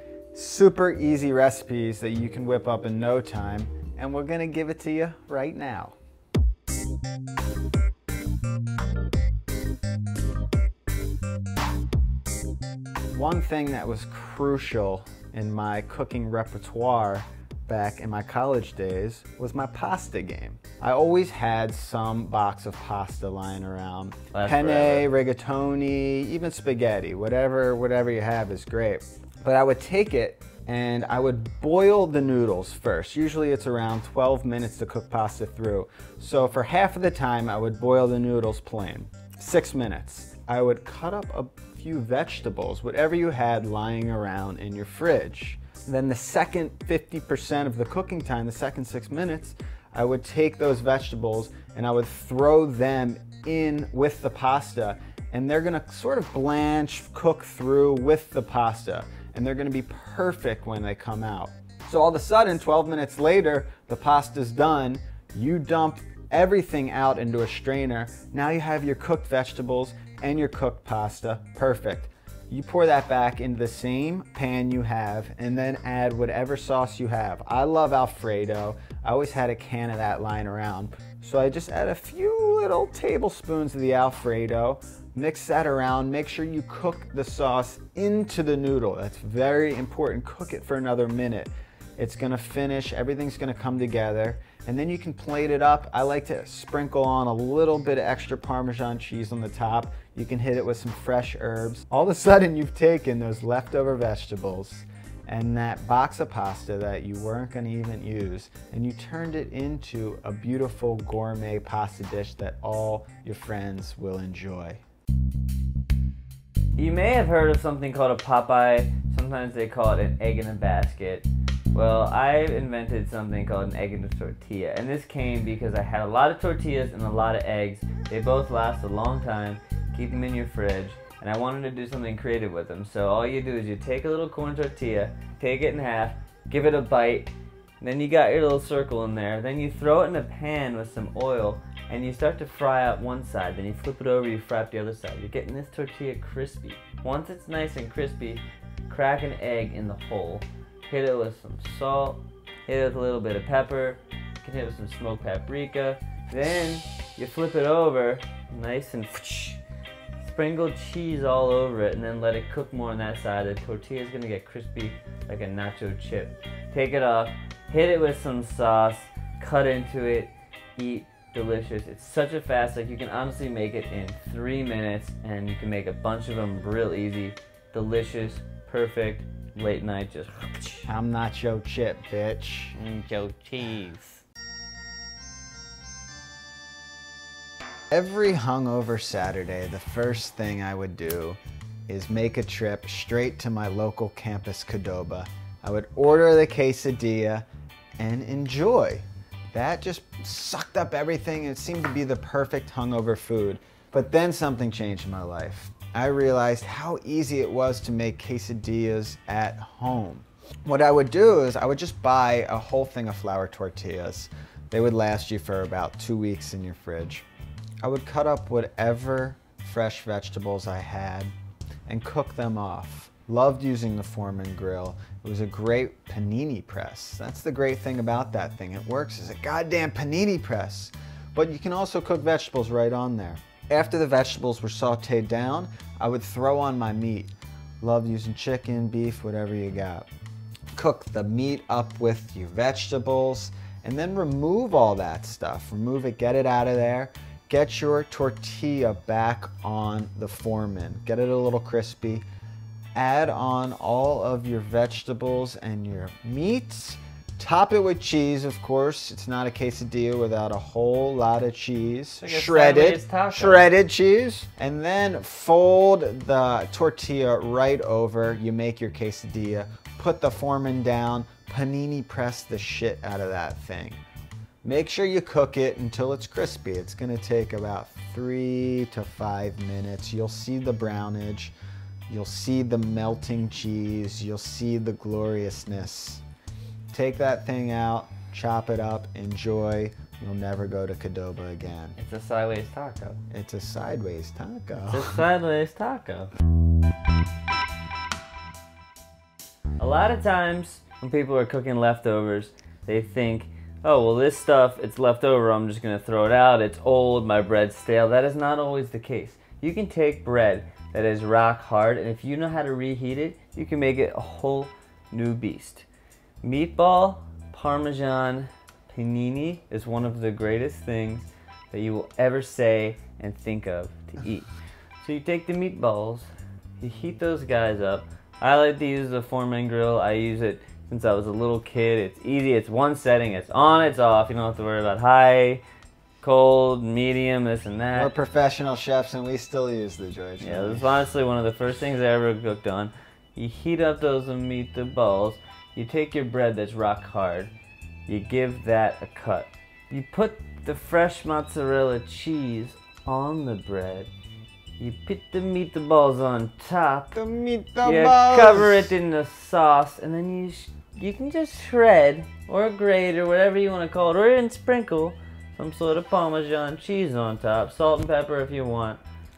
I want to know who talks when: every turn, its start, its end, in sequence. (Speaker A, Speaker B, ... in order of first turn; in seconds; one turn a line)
Speaker A: 0.3-6.0
Speaker A: 13.1-114.8
Speaker B: 24.3-25.1
Speaker B: 116.8-159.6
Speaker B: 160.2-180.8
Speaker A: 180.8-182.7
Speaker B: 182.7-184.2
Speaker A: 187.9-197.4
Speaker A: 198.0-217.2
Speaker A: 217.8-221.3
Speaker A: 221.9-240.1
Speaker A: 240.7-252.2
Speaker A: 252.9-274.0
Speaker B: 262.2-263.7
Speaker A: 274.6-281.5
Speaker A: 282.1-286.2
Speaker A: 286.9-292.0
Speaker B: 291.9-293.2
Speaker A: 293.3-295.2
Speaker B: 294.7-296.3
Speaker B: 299.8-315.9
Speaker B: 316.4-324.5
Speaker B: 325.0-326.3
Speaker B: 326.8-335.6
Speaker B: 336.2-338.1
Speaker A: 337.9-341.1
Speaker B: 340.4-347.5
Speaker B: 348.1-354.1
Speaker B: 354.8-357.1
Speaker A: 357.1-358.9
Speaker B: 357.8-369.0